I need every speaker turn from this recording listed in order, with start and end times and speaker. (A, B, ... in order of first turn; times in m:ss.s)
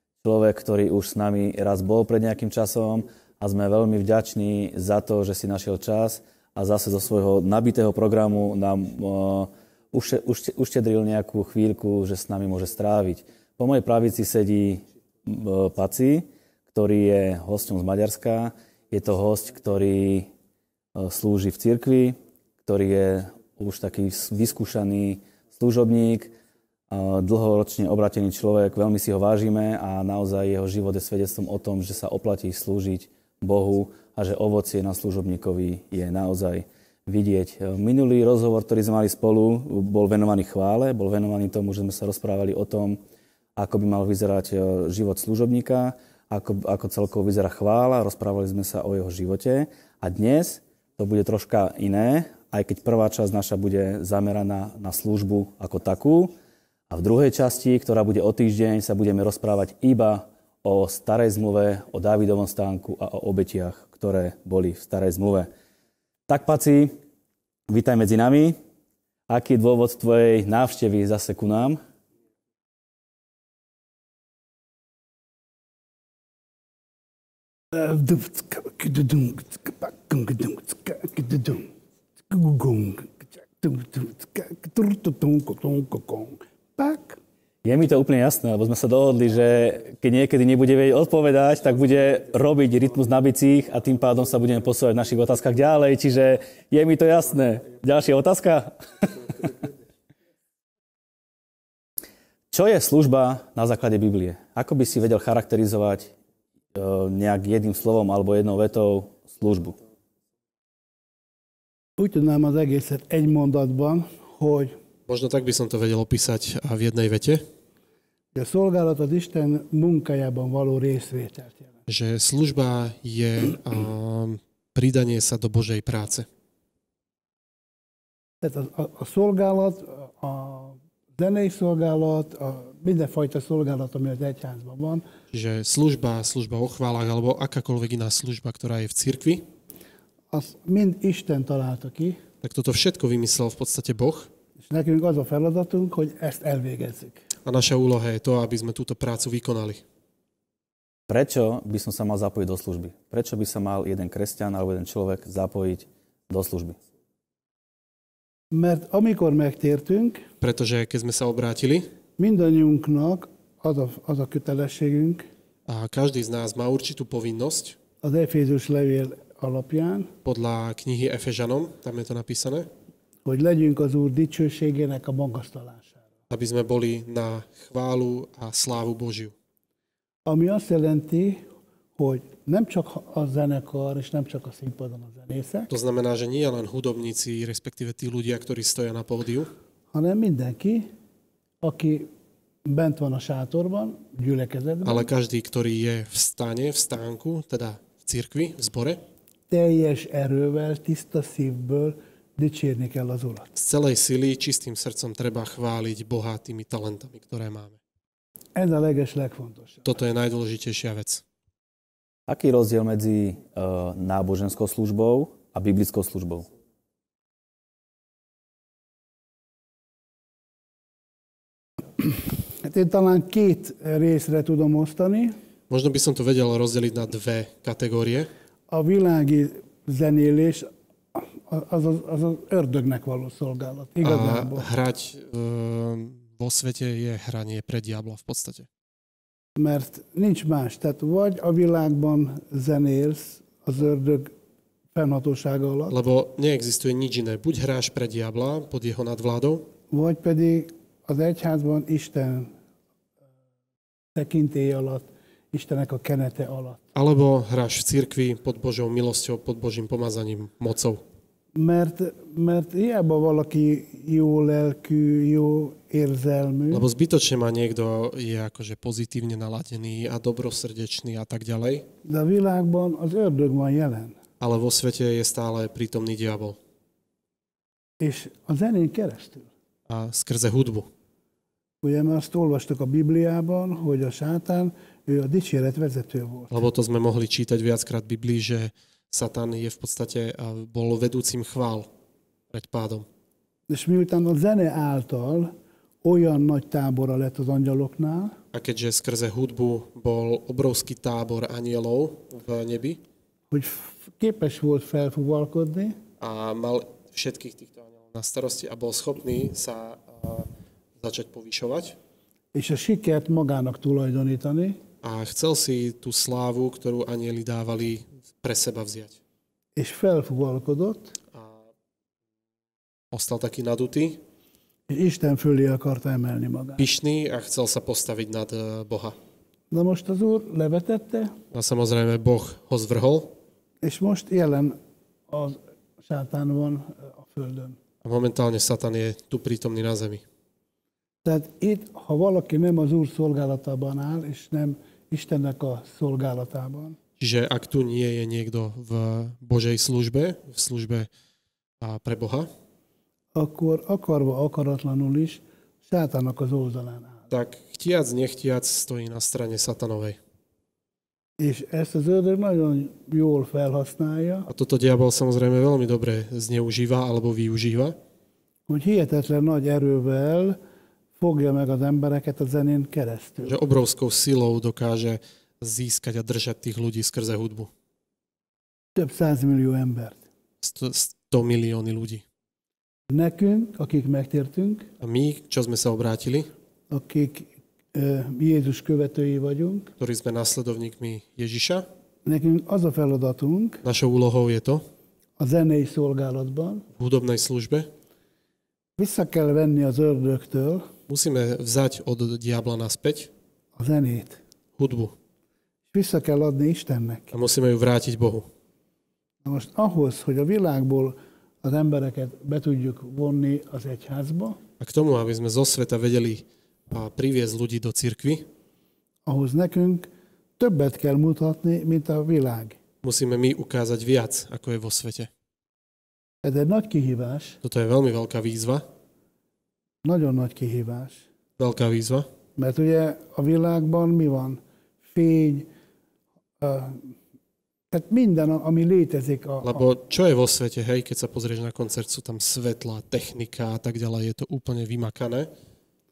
0:00.2-0:20.3 A
0:20.9-0:26.3 A
0:26.9-0:43.0 A
0:43.6-0:56.3 A
0:56.9-1:05.5 A
1:06.3-1:07.0 A
1:07.7-1:08.6 A
1:09.3-1:11.8 A
1:17.7-1:21.7 B
1:22.3-1:27.2 B
1:27.6-1:39.6 A
1:42.5-1:46.1 A
1:46.7-1:49.8 A
1:52.0-1:54.7 B
1:55.1-1:57.4 C
1:58.3-2:01.7 B
2:01.9-2:06.3 C
2:08.4-2:15.0 B
2:15.3-2:19.4 C
2:20.3-2:22.2 B
2:22.4-2:24.3 C
2:24.6-2:27.2 B
2:27.4-2:29.8 C
2:31.1-2:36.8 A
2:38.5-2:40.2 B
2:40.4-2:41.9 C
2:42.2-2:45.2 B
2:45.7-2:47.8 C
2:48.0-2:50.1 B
2:50.2-2:52.7 C
2:53.2-2:56.0 B
2:56.3-2:59.3 C
3:00.2-3:01.4 B
3:02.0-3:05.7 B
3:05.7-3:09.5 C
3:09.9-3:10.9 B
3:11.6-3:12.1 B
3:12.6-3:15.1 B
3:14.8-3:19.0 C
3:19.5-3:23.5 B
3:23.5-3:27.8 C
3:28.5-3:29.8 B
3:29.8-3:31.2 C
3:32.3-3:36.4 A
3:42.0-3:45.4 B
3:45.7-3:48.3 C
3:48.7-3:54.7 B
3:54.0-3:58.7 C
3:59.6-4:04.3 B
4:04.9-4:05.9 B
4:05.9-4:09.7 C
4:09.9-4:12.5 B
4:14.1-4:16.8 B
4:16.9-4:21.0 C
4:21.5-4:26.9 B
4:26.7-4:31.8 C
4:32.0-4:34.2 B
4:34.4-4:36.6 C
4:38.0-4:39.5 B
4:39.9-4:40.9 C
4:41.8-4:46.5 B
4:46.5-4:51.9 C
4:52.5-4:53.0 C
4:53.7-4:55.5 B
4:56.0-4:58.4 B
4:58.5-5:03.0 C
5:03.5-5:06.0 B
5:06.2-5:10.5 C
5:11.0-5:12.0 C
5:12.5-5:14.8 B
5:15.0-5:19.2 C
5:19.8-5:21.1 B
5:23.1-5:24.2 C
5:24.9-5:26.8 B
5:26.8-5:29.2 C
5:29.7-5:31.3 B
5:31.5-5:33.3 C
5:33.8-5:34.8 B
5:35.3-5:37.8 B
5:38.0-5:40.2 C
5:41.2-5:47.0 B
5:47.2-5:51.1 C
5:51.8-5:52.5 C
5:53.3-5:57.3 B
5:57.3-6:00.2 C
6:01.4-6:04.5 B
6:04.5-6:08.0 C
6:08.7-6:10.6 B
6:11.2-6:13.6 B
6:13.4-6:17.7 C
6:19.0-6:20.2 B
6:20.6-6:22.2 C
6:23.1-6:24.9 B
6:25.0-6:26.5 C
6:26.9-6:29.9 B
6:30.0-6:31.8 C
6:32.2-6:33.8 B
6:33.8-6:34.8 C
6:35.4-6:36.8 B
6:37.0-6:37.9 C
6:39.0-6:40.9 B
6:41.1-6:43.3 C
6:43.8-6:44.4 B
6:44.8-6:45.1 C
6:45.9-6:47.3 B
6:47.3-6:48.4 C
6:49.4-6:54.6 B
6:54.8-6:58.4 C
6:59.2-7:00.1 B
7:00.6-7:02.8 B
7:03.0-7:05.3 C
7:06.4-7:07.6 B
7:07.6-7:08.8 C
7:10.0-7:11.2 B
7:11.6-7:12.2 C
7:12.6-7:15.7 B
7:16.6-7:17.1 B
7:17.9-7:19.8 B
7:19.6-7:25.5 C